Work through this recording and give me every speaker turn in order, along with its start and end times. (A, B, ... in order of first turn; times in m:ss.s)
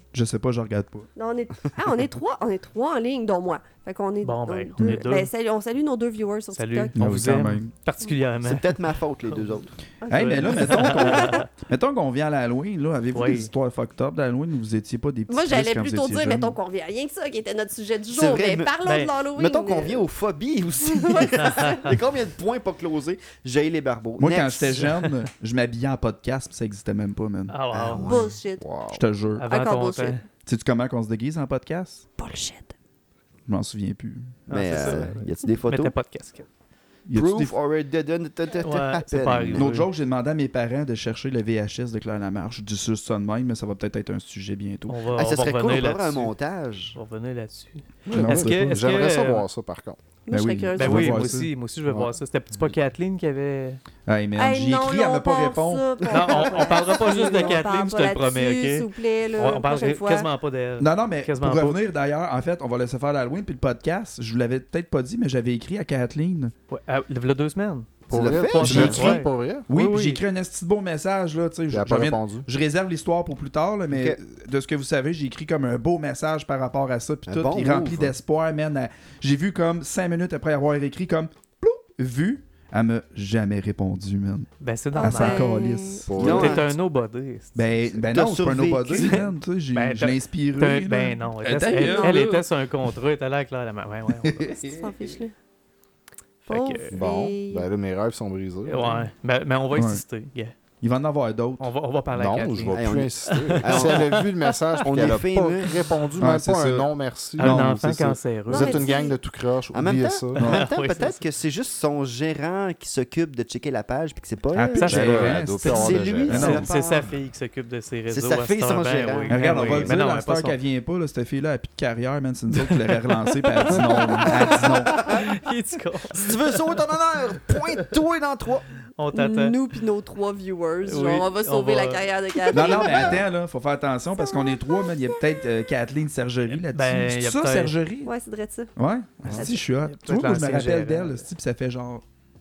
0:00.1-0:01.1 A
0:01.2-0:07.0 B
0:04.2-0:05.3 C
0:06.5-0:09.5 C
0:06.9-0:07.7 A
0:08.4-0:09.8 D
0:10.0-0:11.4 B
0:10.1-0:16.6 A
0:10.1-0:11.5 C
0:13.1-0:13.5 C
0:15.3-0:20.1 B
0:18.1-0:18.8 D
0:18.8-0:19.1 C
0:19.4-0:25.0 D
0:20.8-0:21.8 B
0:21.4-0:21.9 C
0:24.2-0:27.6 A
0:27.5-0:28.3 C
0:27.7-0:28.4 D
0:28.0-0:28.6 B
0:28.6-0:29.0 E
0:28.9-0:29.5 A
0:29.4-0:30.2 C
0:29.5-0:30.2 B
0:30.4-0:32.1 A
0:32.2-0:32.7 B
0:33.5-0:35.0 A
0:34.5-0:36.5 C
0:34.5-0:35.9 D
0:37.1-0:37.6 A
0:37.1-0:39.7 D
0:38.6-0:39.9 C
0:39.5-0:45.0 A
0:44.9-0:46.3 C
0:45.2-0:47.0 D
0:47.0-0:49.4 C
0:48.1-0:50.0 E
0:48.1-0:48.9 A
0:50.3-0:51.3 B
0:50.3-0:51.5 A
0:50.8-0:53.8 C
0:54.1-0:56.5 A
0:54.4-1:00.3 B
0:56.1-1:01.8 C
0:56.6-0:56.8 D
1:00.8-1:06.5 A
1:06.7-1:10.2 C
1:08.1-1:09.7 E
1:08.1-1:09.2 D
1:08.6-1:26.6 A
1:11.7-1:12.5 E
1:13.9-1:14.2 D
1:17.3-1:18.2 D
1:24.6-1:25.5 C
1:25.0-1:26.1 B
1:26.1-1:26.6 E
1:26.1-1:26.7 D
1:26.2-1:27.6 C
1:27.6-1:32.4 A
1:28.0-1:29.2 D
1:28.9-1:34.5 C
1:31.8-1:32.2 B
1:34.2-1:34.8 A
1:34.5-1:35.3 B
1:36.5-1:36.9 C
1:36.5-1:37.7 B
1:36.9-1:39.0 E
1:38.7-1:40.6 C
1:39.7-1:40.0 A
1:40.8-1:41.7 A
1:41.6-1:44.8 C
1:42.1-1:47.9 E
1:42.7-1:44.2 D
1:44.8-1:45.7 D
1:46.2-1:48.2 A
1:47.4-1:48.9 C
1:48.5-1:50.4 E
1:48.5-1:49.2 B
1:49.7-1:57.1 D
1:50.4-1:51.2 C
1:50.4-1:50.7 A
1:54.5-1:56.7 A
1:54.7-2:00.6 C
1:54.9-1:56.6 E
1:58.1-2:00.0 D
1:59.3-2:05.1 A
2:02.5-2:03.0 C
2:03.5-2:06.8 C
2:04.4-2:05.2 D
2:06.2-2:08.7 D
2:09.0-2:09.6 C
2:09.1-2:13.2 B
2:10.8-2:12.6 C
2:12.5-2:18.1 A
2:12.9-2:13.1 D
2:14.2-2:15.2 B
2:16.7-2:17.8 C
2:18.0-2:18.7 B
2:18.8-2:22.0 A
2:19.3-2:21.3 C
2:19.3-2:19.6 B